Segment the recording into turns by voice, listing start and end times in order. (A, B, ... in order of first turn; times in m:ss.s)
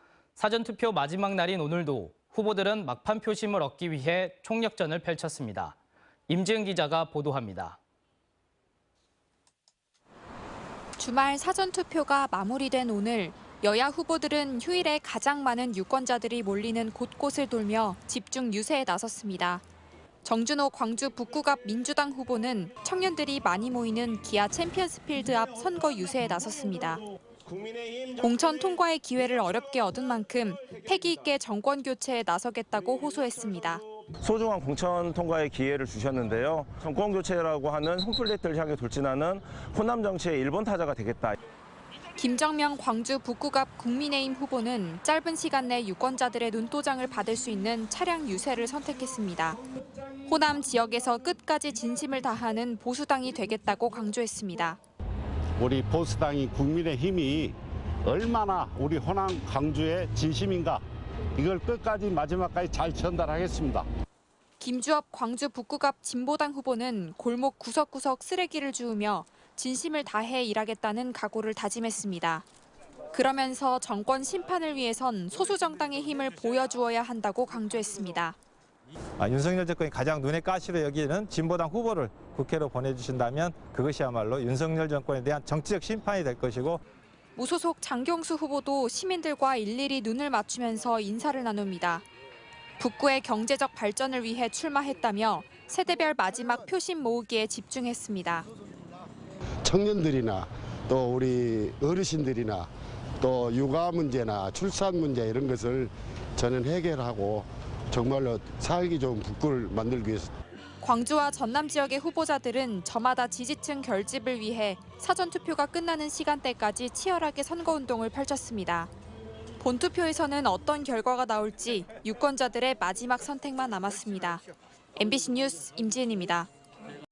0:00.4-0:05.8 A
0:06.3-0:07.8 A
0:11.0-0:19.6 B
0:20.2-0:27.0 B
0:27.5-0:28.2 C
0:28.2-0:33.8 B
0:34.2-0:41.4 C
0:42.2-0:49.6 B
0:50.3-0:54.8 B
0:55.6-1:00.8 D
1:01.4-1:03.9 D
1:04.6-1:12.4 B
1:13.1-1:18.4 B
1:19.2-1:26.8 E
1:27.4-1:32.0 B
1:32.8-1:38.5 B
1:39.6-1:42.7 F
1:43.2-1:50.3 F
1:50.8-1:58.9 B
1:59.6-2:04.4 B
2:05.0-2:06.5 B